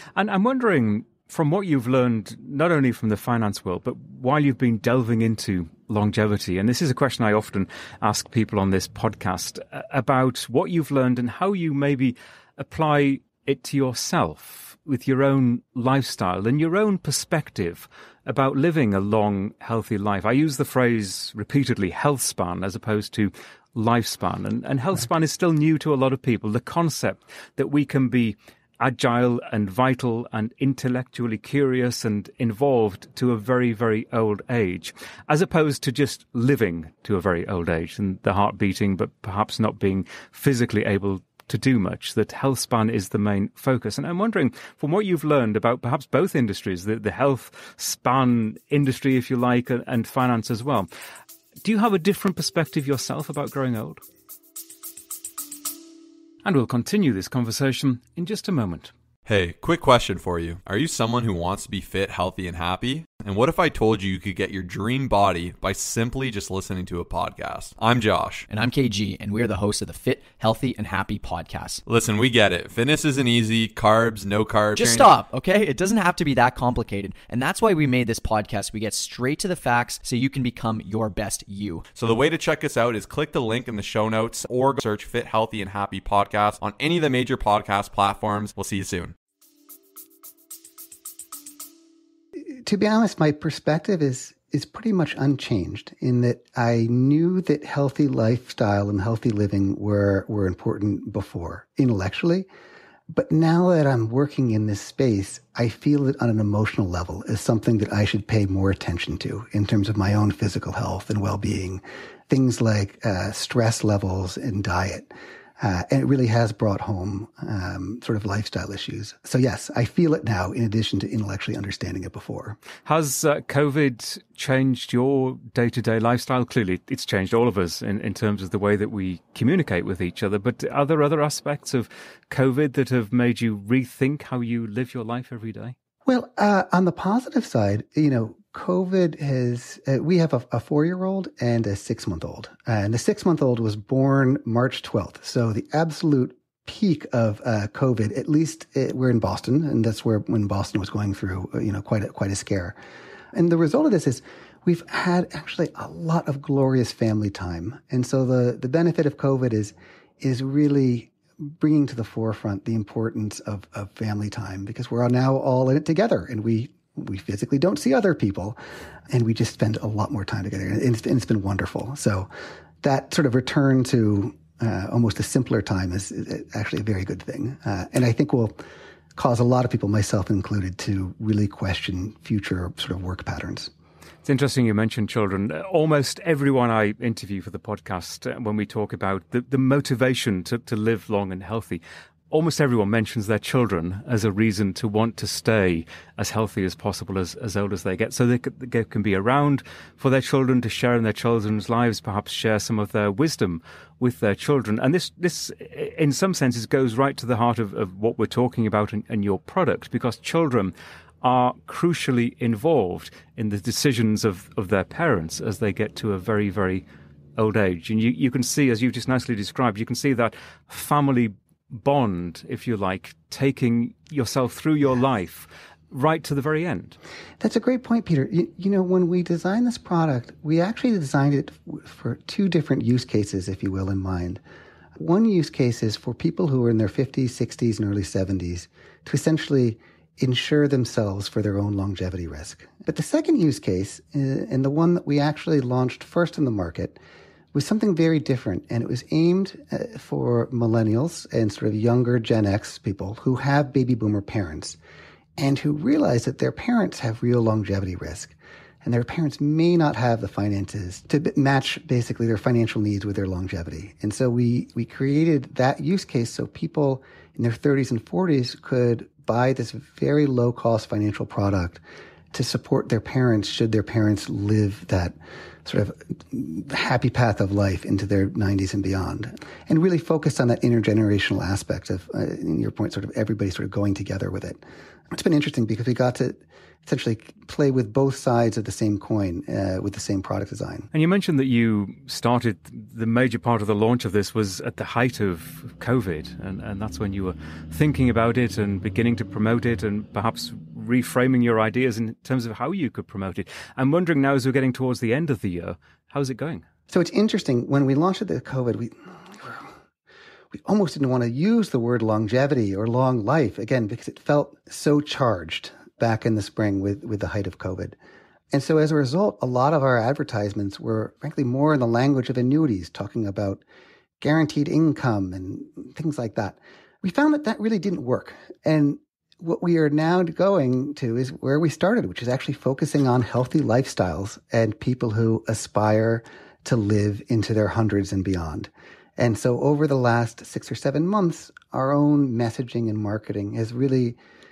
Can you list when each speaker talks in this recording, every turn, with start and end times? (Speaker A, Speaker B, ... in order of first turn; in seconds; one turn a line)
Speaker A: 0.2-50.9
Speaker A: 51.6-54.0
Speaker A: 56.4-58.9
Speaker B: 59.3-68.5
Speaker C: 68.5-71.8
Speaker B: 71.9-75.1
Speaker C: 74.8-81.8
Speaker B: 81.9-89.1
Speaker D: 92.5-102.5
Speaker D: 103.1-122.6
Speaker A: 122.8-135.8
Speaker D: 136.1-152.8
Speaker D: 153.3-168.6
Speaker D: 169.1-172.3
Speaker D: 172.8-178.6
Speaker D: 179.2-183.7
Speaker A: 184.2-216.9
Speaker A: 217.4-227.0
Speaker D: 227.4-234.4
Speaker D: 235.0-247.0
Speaker D: 247.5-254.8
Speaker D: 255.4-271.8
Speaker D: 272.3-290.9
Speaker A: 290.9-306.6
Speaker D: 306.9-309.7
Speaker D: 310.5-318.0
Speaker D: 318.5-323.6
Speaker D: 324.2-344.2